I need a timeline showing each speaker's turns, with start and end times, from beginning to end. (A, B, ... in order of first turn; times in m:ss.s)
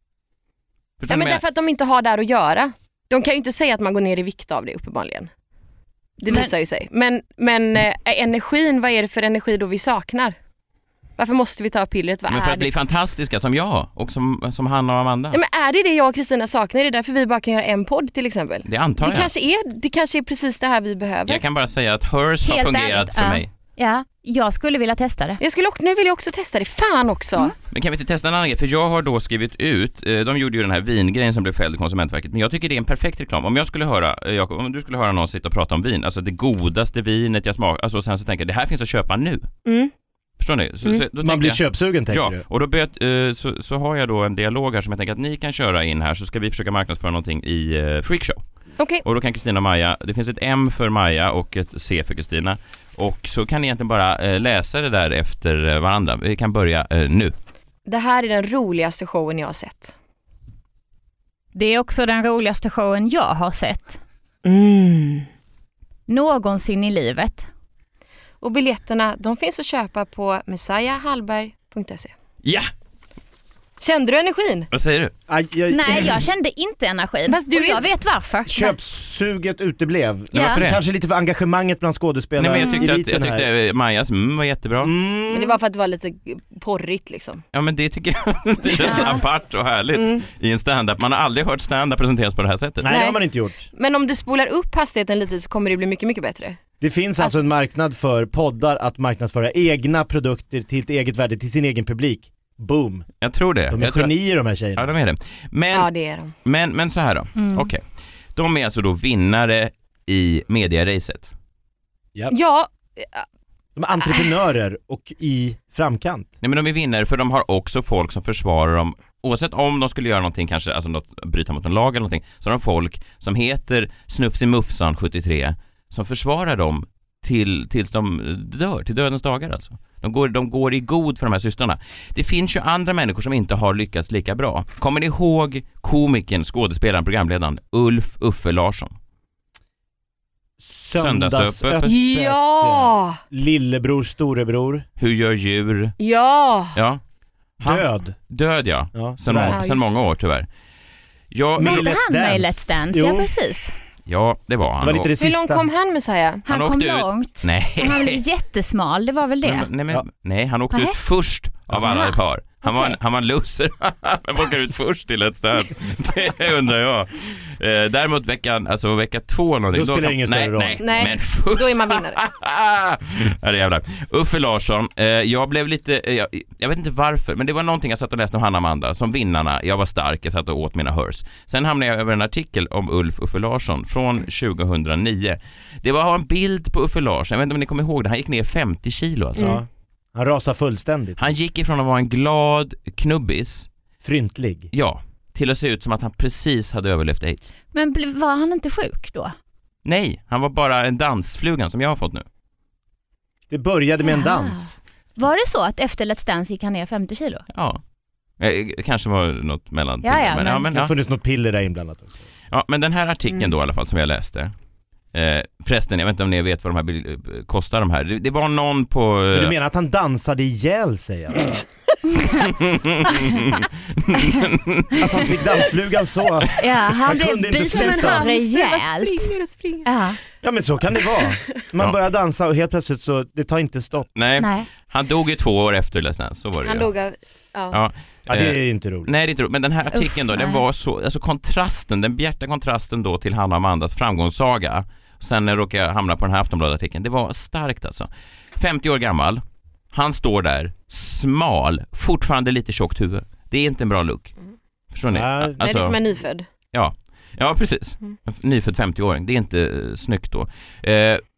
0:01.0-0:01.4 A
0:01.1-0:05.3 B
0:06.2-0:10.4 B
0:11.2-0:12.7 B
0:12.3-0:15.4 A
0:15.3-0:21.4 B
0:18.6-0:19.3 A
0:21.2-0:23.5 A
0:22.4-0:25.4 C
0:25.4-0:27.5 B
0:27.7-0:39.5 A
0:39.6-0:39.9 B
0:40.4-0:48.4 A
0:41.2-0:42.4 D
0:48.8-0:49.0 B
0:49.0-0:57.3 A
0:57.9-0:59.9 B
1:01.5-1:04.0 C
1:04.4-1:05.3 B
1:06.1-1:07.5 C
1:08.4-1:12.1 B
1:12.4-1:12.7 A
1:13.8-1:14.7 B
1:14.7-1:15.1 A
1:15.3-1:16.2 D
1:15.7-1:18.7 C
1:17.3-1:17.9 B
1:18.5-1:23.4 D
1:20.3-1:20.6 C
1:20.3-1:20.8 A
1:22.4-1:24.9 A
1:24.8-1:25.6 D
1:25.3-1:27.4 B
1:27.5-1:32.9 A
1:28.8-1:29.2 B
1:28.8-1:29.2 C
1:29.9-1:30.2 B
1:32.8-1:33.6 D
1:32.8-1:36.6 B
1:36.8-1:43.0 D
1:43.2-1:44.1 A
1:43.7-1:44.9 D
1:44.7-1:45.9 A
1:45.7-1:46.3 B
1:46.4-1:47.8 A
1:47.4-1:47.7 C
1:48.4-1:51.3 A
1:52.3-1:53.2 B
1:53.8-1:56.3 D
1:56.4-2:19.0 A
2:20.6-2:24.8 D
2:20.9-2:21.9 A
2:21.8-2:23.2 B
2:25.0-2:26.0 A
2:26.0-2:26.8 B
2:26.7-2:27.0 A
2:27.6-2:30.5 A
2:27.6-2:28.2 D
2:28.9-2:29.6 D
2:29.5-2:29.9 B
2:31.3-2:31.9 A
2:31.6-2:33.3 D
2:31.6-2:33.7 C
2:34.1-2:35.1 A
2:34.8-2:35.7 D
2:35.2-2:36.4 B
2:36.5-2:39.7 C
2:36.5-2:38.2 A
2:39.4-3:09.6 A
2:41.8-2:42.1 C
2:42.6-2:42.9 C
2:49.7-2:50.8 D
2:50.8-2:52.2 B
3:09.4-3:11.2 D
3:11.2-3:13.7 A
3:14.0-3:14.7 D
3:14.7-3:17.5 A
3:17.7-3:19.3 C
3:19.8-3:22.2 A
3:23.5-3:24.8 D
3:24.1-3:27.4 C
3:27.5-3:27.8 A
3:28.4-3:30.9 A
3:30.0-3:30.7 C
3:30.7-3:32.2 D
3:32.5-3:34.5 A
3:35.1-3:39.5 A
3:39.3-3:41.6 D
3:42.1-3:42.4 C
3:42.4-3:45.1 A
3:45.0-3:48.2 D
3:46.6-3:49.3 C
3:47.6-3:49.9 B
3:49.8-3:50.2 C
3:50.4-3:54.1 D
3:54.2-3:56.9 A
3:54.4-3:54.7 C
3:56.6-3:57.8 B
3:57.7-4:14.3 A
3:58.3-3:59.1 D
3:59.9-4:00.6 C
4:14.9-4:16.0 A
4:15.1-4:15.6 D
4:15.6-4:16.4 B
4:16.7-4:21.2 A